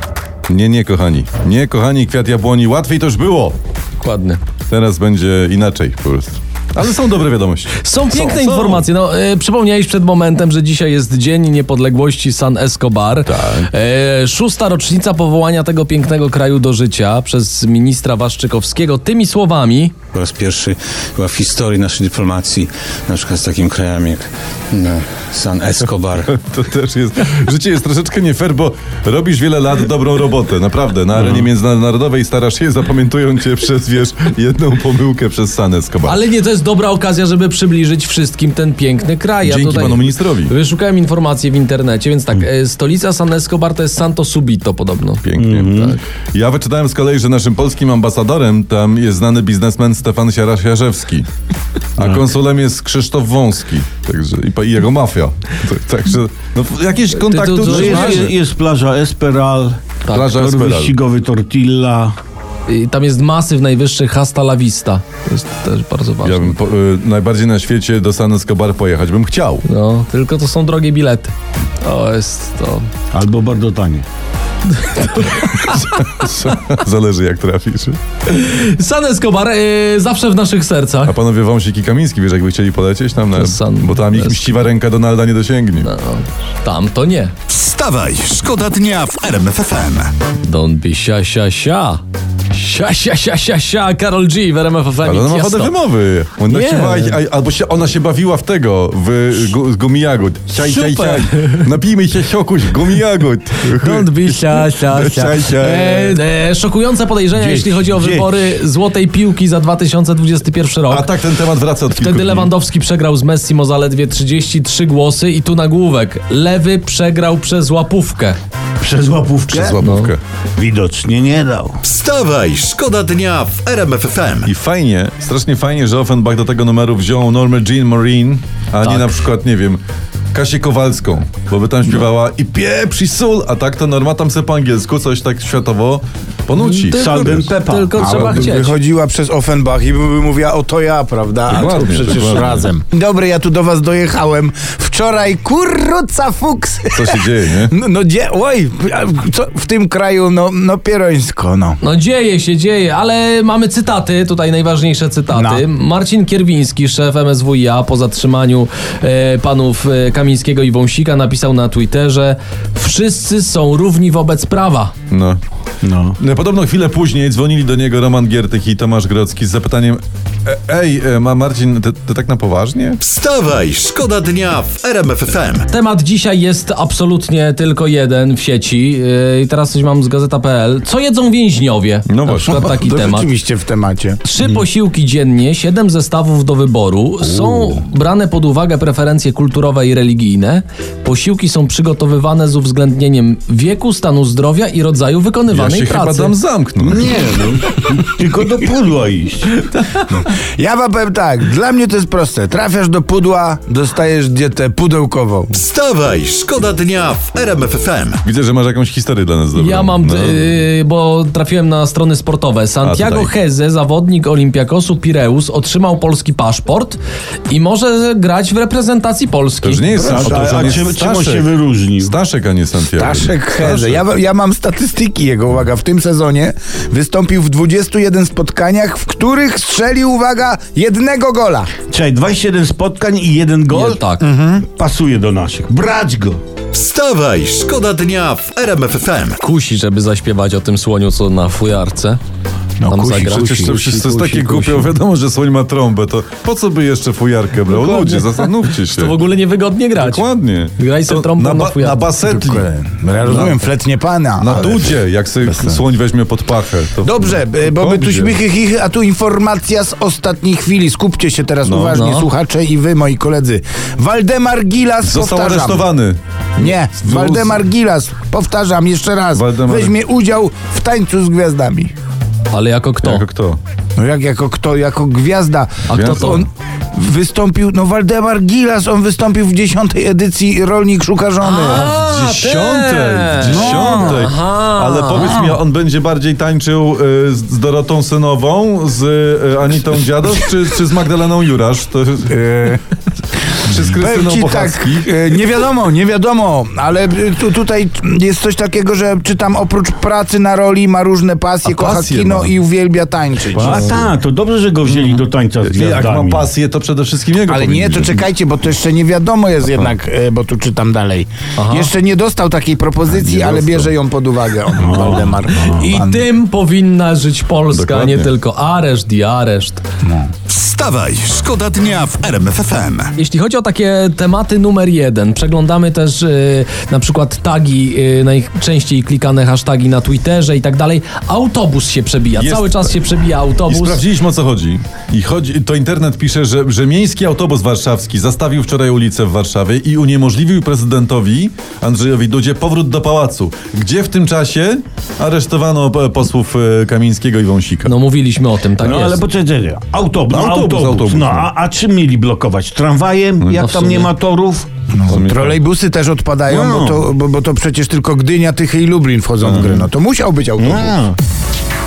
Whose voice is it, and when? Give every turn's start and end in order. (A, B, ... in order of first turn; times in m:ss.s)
0:00.5-0:03.6 A
0:04.0-0:04.4 B
0:04.7-0:08.9 A
0:07.8-0:20.0 B
0:13.2-0:13.7 A
0:20.1-0:26.2 C
0:26.2-0:36.2 A
0:36.0-0:46.0 B
0:39.4-0:40.5 A
0:45.2-0:51.3 A
0:45.4-0:46.0 D
0:52.0-0:58.4 A
0:52.0-0:52.3 D
0:57.2-0:58.3 B
0:57.6-1:02.2 D
1:00.2-1:01.0 A
1:02.7-1:06.6 B
1:06.2-1:09.6 A
1:09.6-1:12.9 B
1:13.1-1:14.1 D
1:14.7-1:16.2 B
1:15.2-1:18.0 A
1:18.3-1:21.2 B
1:21.1-1:25.9 A
1:23.3-1:24.6 B
1:25.8-1:27.3 B
1:27.5-1:30.1 E
1:30.4-1:35.8 B
1:35.0-1:46.2 A
1:36.5-1:37.2 B
1:40.5-1:41.7 B
1:43.6-1:51.2 B
1:47.3-1:48.5 D
1:50.9-1:52.5 A
1:51.9-1:58.4 B
1:58.8-1:59.7 D
1:59.5-1:59.8 F
1:59.6-2:00.2 A
1:59.8-2:00.2 B
2:00.6-2:01.8 D
2:01.8-2:04.5 E
2:04.4-2:09.8 A
2:10.3-2:17.5 A
2:16.5-2:18.8 B
2:16.9-2:18.2 D
2:18.0-2:31.8 F
2:18.0-2:18.5 A
2:21.5-2:22.7 A
2:26.9-2:27.7 A
2:31.8-2:44.9 B
2:35.3-2:35.6 F
2:45.1-2:45.4 A
2:45.8-2:46.2 D
2:46.2-2:53.0 A
2:53.0-2:55.7 E
2:55.7-3:03.3 B
3:02.1-3:02.5 A
3:02.5-3:04.2 F
3:04.2-3:16.4 B
3:15.5-3:17.1 A
3:16.8-3:19.6 D
3:20.1-3:25.6 F
3:25.5-3:28.2 E
3:28.2-3:30.4 A
3:29.6-3:40.4 B
3:32.8-3:33.3 A
3:39.6-3:44.0 A
3:40.0-3:40.8 F
3:40.0-3:42.2 D
3:42.9-3:51.7 F
3:51.9-3:54.0 D
3:53.7-3:54.3 B
3:54.2-3:54.6 F
3:54.6-3:56.4 D
3:56.7-3:59.4 E
3:59.4-4:02.2 B
4:02.8-4:03.7 F
4:02.9-4:04.9 B
4:03.4-4:09.2 A
4:07.7-4:12.0 B
4:10.0-4:12.7 A
4:12.3-4:15.8 F
4:13.2-4:13.6 A
4:14.4-4:18.4 A
4:17.0-4:25.9 F
4:21.6-4:22.0 A
4:21.9-4:22.3 B
4:25.0-4:27.6 A
4:26.6-4:31.9 F
4:29.3-4:29.9 A
4:32.5-4:33.2 B
4:33.0-4:33.6 A
4:34.0-4:41.9 F
4:35.9-4:36.5 B
4:35.9-4:36.3 A
4:41.4-4:45.4 B
4:41.7-4:52.4 A
4:43.4-4:44.3 F
4:45.3-4:45.5 F
4:52.3-4:52.8 F
4:53.6-4:55.1 A
4:53.7-5:04.1 F
5:01.6-5:02.5 A
5:03.5-5:06.5 D
5:04.9-5:08.2 A
5:07.5-5:16.3 F
5:11.6-5:11.9 B
5:13.1-5:13.9 A
5:14.8-5:15.8 D
5:15.5-5:19.8 B
5:17.7-5:18.3 A
5:20.0-5:20.3 F
5:20.5-5:23.1 E
5:23.2-5:34.0 B
5:32.4-5:33.0 A
5:33.7-5:47.9 A
5:47.8-5:49.2 B
5:48.8-5:54.7 D
5:50.3-5:51.5 A
5:53.6-5:54.1 B
5:54.9-6:01.0 F
5:55.1-5:55.6 A
5:56.5-5:57.1 D
5:59.5-5:59.8 A
6:00.6-6:01.2 D